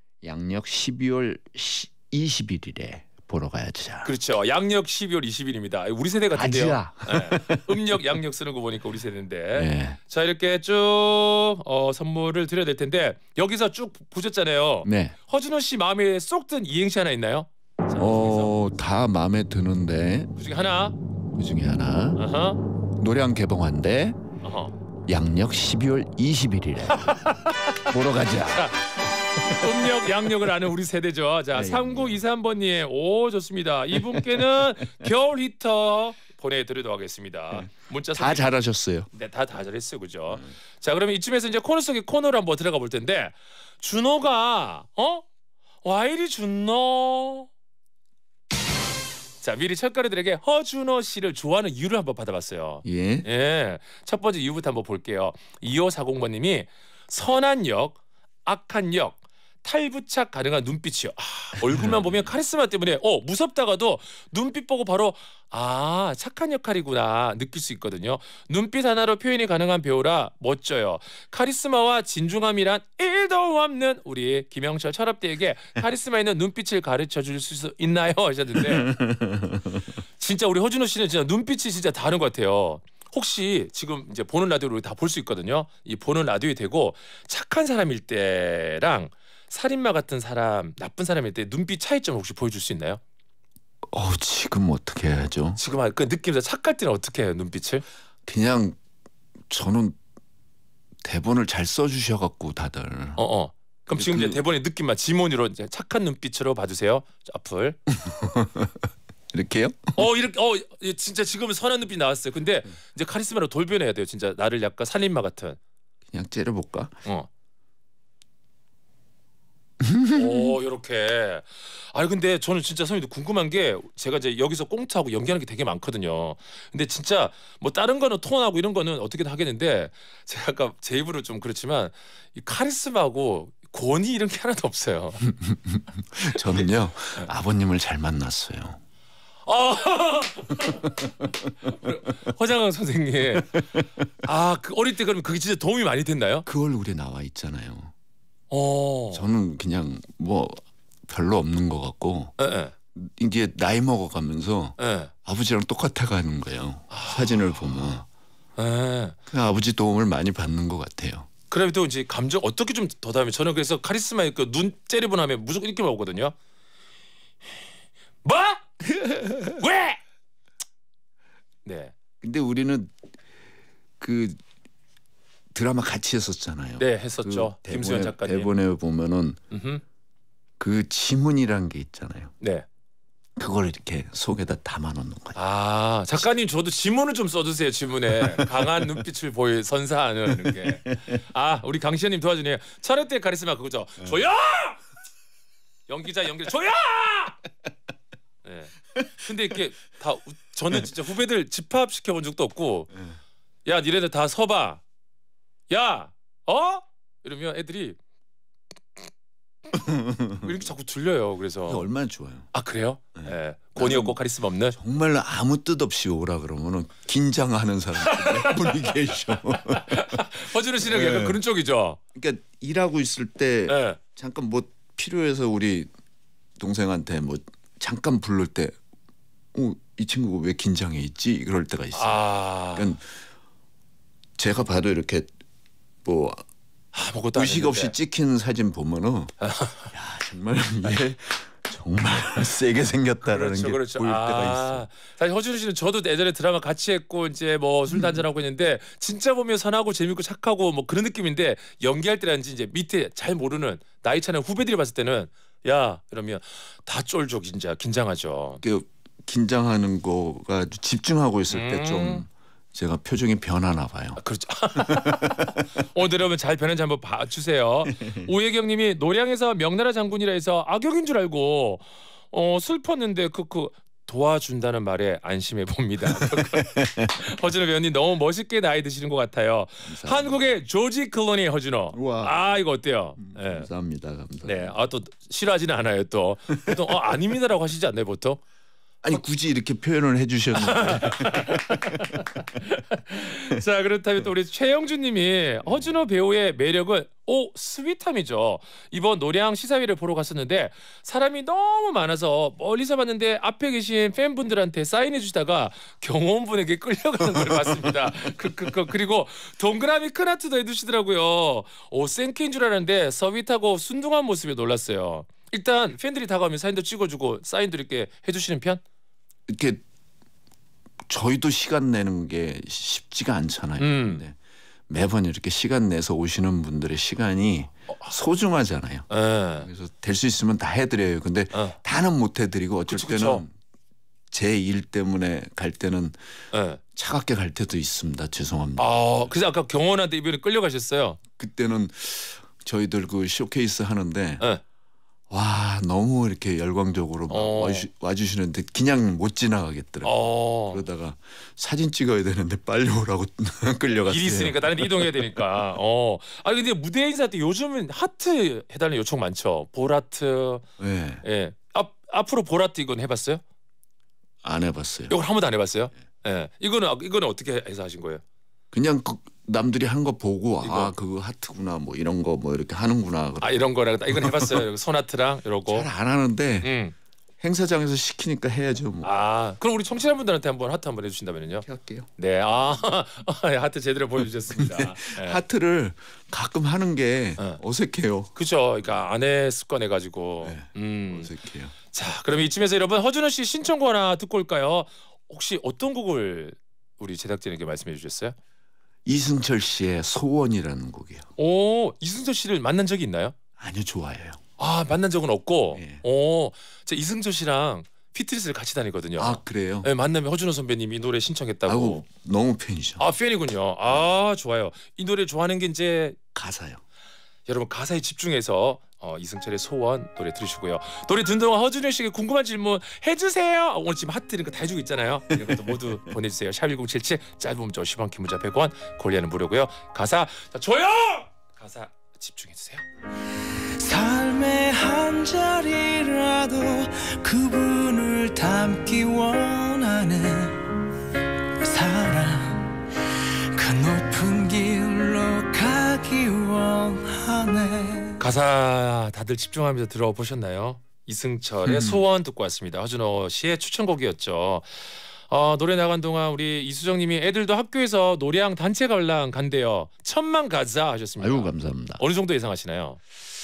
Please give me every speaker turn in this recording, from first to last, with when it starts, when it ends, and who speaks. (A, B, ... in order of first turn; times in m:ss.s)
0:00.2-0:04.1 A
0:04.0-0:18.6 B
0:06.3-0:08.2 A
0:09.5-0:10.0 A
0:14.8-0:15.2 A
0:18.0-0:20.3 A
0:20.4-0:21.0 B
0:21.3-0:22.2 A
0:22.2-0:22.6 B
0:22.8-0:24.2 A
0:24.4-0:24.7 B
0:25.1-0:28.7 A
0:27.0-0:27.6 B
0:28.5-0:38.5 B
0:31.5-0:32.2 A
0:34.1-0:34.4 A
0:38.2-0:39.1 A
0:39.1-0:45.2 B
0:45.8-0:47.5 B
0:49.4-1:18.9 B
0:52.8-0:53.3 A
1:01.6-1:02.1 A
1:18.6-1:19.8 A
1:20.2-1:33.0 B
1:33.9-1:35.6 A
1:35.6-1:37.8 B
1:38.3-1:38.8 A
1:39.5-1:40.0 A
1:41.0-1:43.2 A
1:43.2-1:47.8 B
1:43.9-1:44.4 A
1:47.9-1:50.1 A
1:50.0-1:55.6 B
1:56.1-1:57.0 A
1:59.8-2:00.5 A
2:00.1-2:15.3 B
2:15.3-2:18.8 A
2:19.5-2:21.1 B
2:21.6-2:23.7 B
2:24.2-2:26.4 B
2:26.5-2:27.9 A
2:28.5-2:29.3 B
2:29.1-2:32.3 A
2:32.4-2:32.7 B
2:33.0-2:38.1 A
2:34.8-2:35.1 B
2:36.9-2:38.0 B
2:38.6-2:39.2 B
2:39.3-2:41.3 A
2:41.5-2:46.3 B
2:48.2-2:48.6 B
2:49.4-2:50.0 B
2:51.6-2:51.9 B
2:52.2-2:52.9 A
2:54.0-2:54.4 A
2:55.5-2:59.4 A
2:56.8-2:58.5 B
2:59.5-2:59.8 B
3:00.6-3:02.3 A
3:02.4-3:02.7 B
3:03.4-3:05.4 A
3:05.4-3:14.8 B
3:15.9-3:17.4 B
3:18.4-3:22.9 B
3:23.7-3:24.8 B
3:25.7-3:28.0 B
3:29.7-3:30.5 A
3:30.4-3:31.9 B
3:31.7-3:32.5 A
3:32.5-3:34.8 B
3:33.2-3:34.2 A
3:34.8-3:40.2 A
3:38.1-3:38.8 B
3:39.9-3:42.0 B
3:40.8-3:41.4 A
3:42.1-3:45.9 A
3:43.7-3:44.0 B
3:46.6-3:48.8 A
3:49.5-3:53.1 A
3:51.9-3:52.9 B
3:54.4-3:55.3 A
3:56.0-3:56.4 A
3:56.9-3:57.9 B
3:57.3-3:59.3 A
3:59.4-3:59.9 B
3:59.9-4:04.8 A
4:03.3-4:18.6 B
4:07.9-4:08.2 A
4:18.6-4:24.2 A
4:21.5-4:22.2 B
4:24.2-4:43.7 B
4:24.8-4:25.6 A
4:27.9-4:28.3 A
4:36.1-4:37.3 A
4:39.8-4:40.4 A
4:41.9-4:42.4 A
4:43.2-4:44.8 A
4:44.4-4:48.4 B
4:49.0-4:52.2 A
4:50.6-5:18.8 B
5:07.3-5:08.3 A
5:19.5-5:19.8 A
5:21.1-5:24.4 A
5:23.8-5:24.2 B
5:24.9-5:29.1 A
5:29.1-5:29.7 B
5:29.6-5:33.5 A
5:32.9-5:33.4 B
5:34.3-5:36.2 A
5:36.5-5:36.8 B
5:36.9-5:39.3 A
5:38.8-5:41.2 B
5:41.4-5:44.4 A
5:45.3-5:55.3 A
5:47.3-5:47.9 B
5:50.0-5:50.8 B
5:54.1-6:00.6 B
6:00.8-6:01.2 A
6:01.2-6:03.4 B
6:04.4-6:05.2 A
6:05.1-6:08.2 B
6:08.7-6:13.6 A
6:10.6-6:10.9 B
6:13.4-6:15.9 B
6:14.1-6:14.6 A
6:15.7-6:16.7 A
6:16.6-6:16.9 B
6:17.4-6:19.1 A
6:19.0-6:21.7 B
6:21.6-6:22.1 A
6:22.2-6:25.4 B
6:24.6-6:28.3 A
6:28.4-6:31.3 B
6:30.4-6:31.7 A
6:31.9-6:38.4 B
6:39.1-6:41.3 A
6:41.4-6:43.4 B
6:43.6-6:44.4 A
6:44.6-6:52.0 B
6:45.7-6:46.0 A
6:49.2-6:49.9 A
6:51.7-6:53.1 A
6:53.0-6:56.2 B
6:56.3-6:56.8 A
6:57.5-7:12.8 B
7:05.4-7:05.9 A
7:13.8-7:20.8 C
7:21.6-7:22.9 C
7:23.6-7:28.2 C
7:28.2-7:34.7 B
7:31.6-7:32.0 A
7:35.3-7:43.0 B
7:41.2-7:42.0 A